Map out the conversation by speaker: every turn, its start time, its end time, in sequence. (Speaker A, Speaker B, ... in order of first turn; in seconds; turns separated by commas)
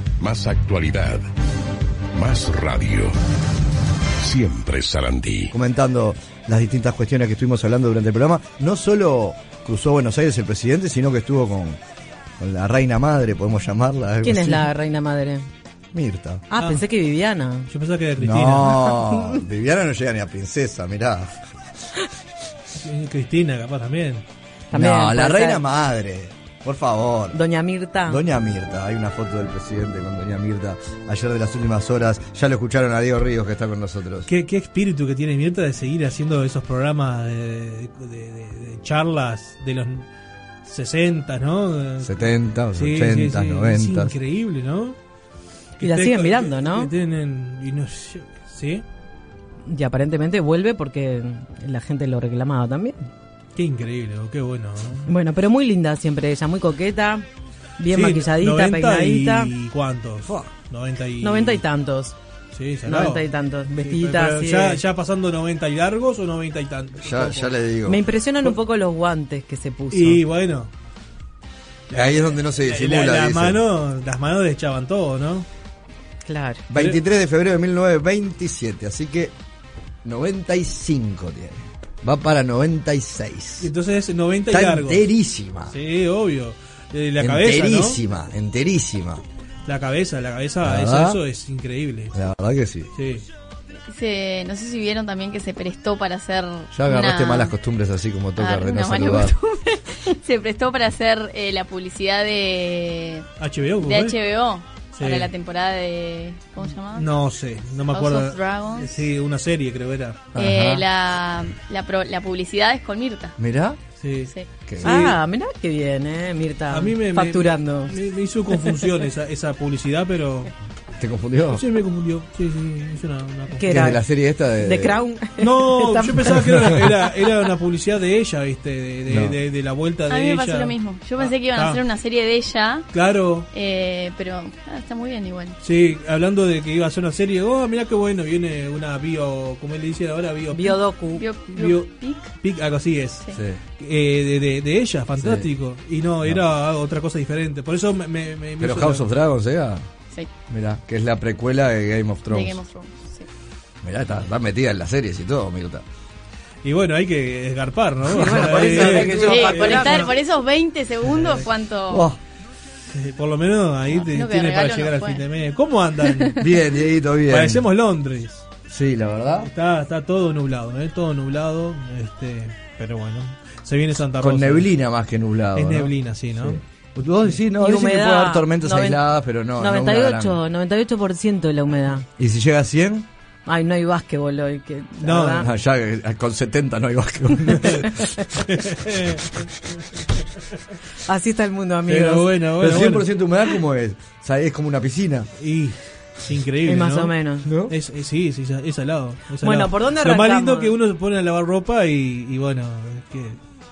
Speaker A: 0.2-1.2, Speaker A: 2.1-3.1, Speaker A: 4.2-5.5, Speaker B: 5.5-11.8, Speaker B: 12.4-14.7, Speaker C: 14.2-15.5, Speaker B: 15.9-16.4, Speaker C: 16.5-17.7, Speaker D: 17.7-19.0, Speaker B: 18.2-21.3, Speaker D: 22.8-24.2, Speaker C: 24.7-25.6, Speaker B: 24.7-27.4, Speaker C: 27.3-28.2, Speaker B: 28.1-34.3, Speaker D: 34.3-40.1, Speaker D: 40.6-45.0, Speaker B: 42.0-44.1, Speaker D: 45.8-48.9, Speaker C: 45.8-46.9, Speaker C: 49.7-53.1, Speaker D: 53.6-55.1, Speaker C: 55.1-57.2, Speaker C: 57.8-59.5, Speaker D: 57.9-61.6, Speaker C: 61.2-62.2, Speaker D: 62.5-67.5, Speaker C: 62.9-64.8, Speaker B: 67.0-68.0, Speaker C: 67.9-70.2, Speaker D: 69.9-70.7, Speaker B: 71.9-73.6, Speaker D: 72.7-75.5, Speaker C: 76.3-76.7, Speaker B: 76.7-79.3, Speaker B: 80.0-83.7, Speaker D: 83.6-85.0, Speaker B: 84.5-85.7, Speaker D: 85.7-88.0, Speaker B: 87.2-89.2, Speaker D: 89.7-92.2, Speaker B: 90.6-91.2, Speaker B: 92.1-92.9, Speaker D: 93.0-93.3, Speaker E: 93.9-97.5, Speaker B: 96.7-99.3, Speaker E: 98.4-103.2, Speaker D: 103.4-104.2, Speaker E: 103.8-107.1, Speaker D: 105.0-105.3, Speaker D: 106.9-110.3, Speaker E: 107.9-109.0, Speaker B: 110.3-110.9, Speaker E: 110.4-113.3, Speaker B: 113.4-113.8, Speaker D: 114.0-115.2, Speaker B: 114.7-115.0, Speaker C: 114.8-117.9, Speaker D: 116.7-120.5, Speaker B: 121.0-121.6, Speaker D: 121.5-123.8, Speaker C: 123.6-124.0, Speaker B: 123.7-125.0, Speaker C: 124.6-126.5, Speaker D: 125.4-131.8, Speaker B: 129.1-129.4, Speaker E: 130.1-132.9, Speaker D: 132.9-133.5, Speaker E: 133.5-135.6, Speaker D: 135.6-140.8, Speaker C: 140.5-141.2, Speaker E: 141.2-142.3, Speaker D: 141.5-143.3, Speaker D: 143.8-149.1, Speaker B: 145.2-145.5, Speaker B: 148.6-149.8, Speaker B: 150.5-152.6, Speaker E: 152.3-153.3, Speaker B: 153.8-155.8, Speaker D: 156.6-160.1, Speaker C: 158.1-160.2, Speaker B: 158.3-159.1, Speaker E: 159.1-162.1, Speaker D: 161.1-161.5, Speaker B: 161.9-162.2, Speaker D: 162.9-166.4, Speaker E: 164.0-165.3, Speaker E: 166.1-166.4, Speaker B: 166.4-167.6, Speaker D: 167.3-168.4, Speaker B: 168.7-169.5, Speaker D: 169.4-174.7, Speaker B: 174.2-180.4, Speaker D: 175.6-176.6, Speaker C: 177.5-179.0, Speaker C: 179.6-182.1, Speaker B: 182.2-183.1, Speaker C: 183.5-185.5, Speaker D: 185.0-185.5, Speaker B: 185.4-188.0, Speaker D: 188.4-189.3, Speaker C: 191.1-192.3, Speaker D: 191.9-193.1, Speaker B: 192.6-195.3, Speaker D: 195.4-197.1, Speaker C: 196.7-197.5, Speaker B: 197.4-197.7, Speaker D: 197.7-203.4, Speaker C: 199.4-200.7